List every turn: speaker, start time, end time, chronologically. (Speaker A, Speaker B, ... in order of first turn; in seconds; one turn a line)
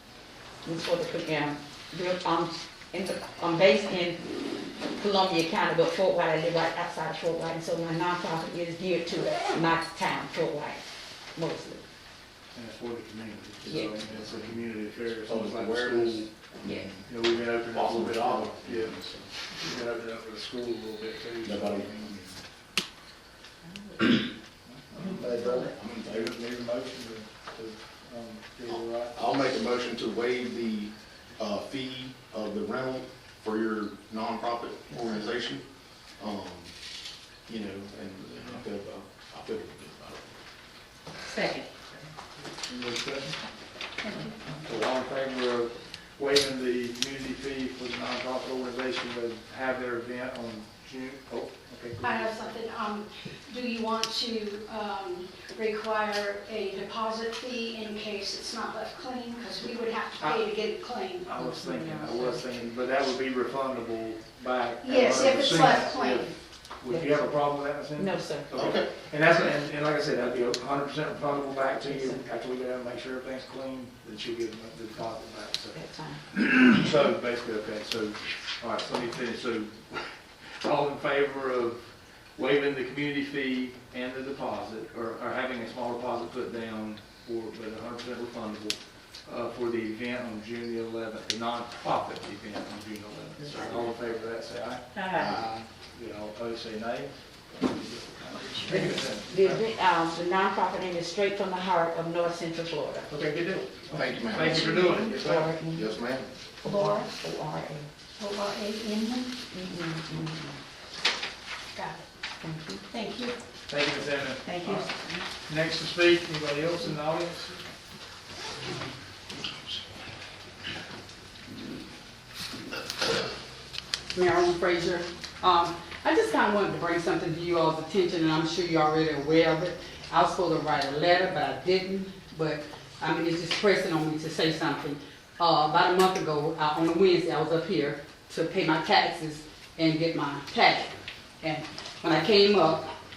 Speaker A: 0.6-4.2
Speaker A: 5.0-10.8
Speaker A: 11.3-11.8
Speaker B: 12.5-16.3
Speaker C: 14.2-14.6
Speaker C: 15.3-17.0
Speaker A: 16.6-16.9
Speaker B: 17.1-22.4
Speaker C: 17.7-19.3
Speaker C: 21.4-22.1
Speaker B: 24.6-29.2
Speaker C: 25.6-26.4
Speaker C: 28.7-35.6
Speaker C: 36.2-36.7
Speaker C: 37.5-40.2
Speaker B: 42.6-43.4
Speaker D: 44.0-44.3
Speaker B: 44.5-52.3
Speaker D: 52.0-61.4
Speaker B: 61.2-75.8
Speaker A: 61.6-62.4
Speaker D: 64.8-66.3
Speaker A: 66.9-67.3
Speaker A: 67.9-68.5
Speaker C: 68.5-68.9
Speaker A: 71.8-72.2
Speaker A: 75.7-76.2
Speaker B: 76.3-80.0
Speaker B: 80.6-94.8
Speaker A: 94.9-95.5
Speaker C: 95.2-95.6
Speaker B: 95.9-99.6
Speaker D: 98.4-98.8
Speaker A: 98.7-103.1
Speaker B: 103.1-105.6
Speaker C: 103.9-104.6
Speaker A: 104.3-105.9
Speaker C: 105.7-106.3
Speaker A: 106.6-107.9
Speaker D: 106.7-107.1
Speaker D: 108.2-109.4
Speaker A: 109.5-110.5
Speaker D: 111.7-112.1
Speaker A: 112.4-112.9
Speaker D: 112.9-113.3
Speaker B: 113.7-114.9
Speaker A: 114.4-115.2
Speaker B: 115.5-117.6
Speaker E: 124.1-142.9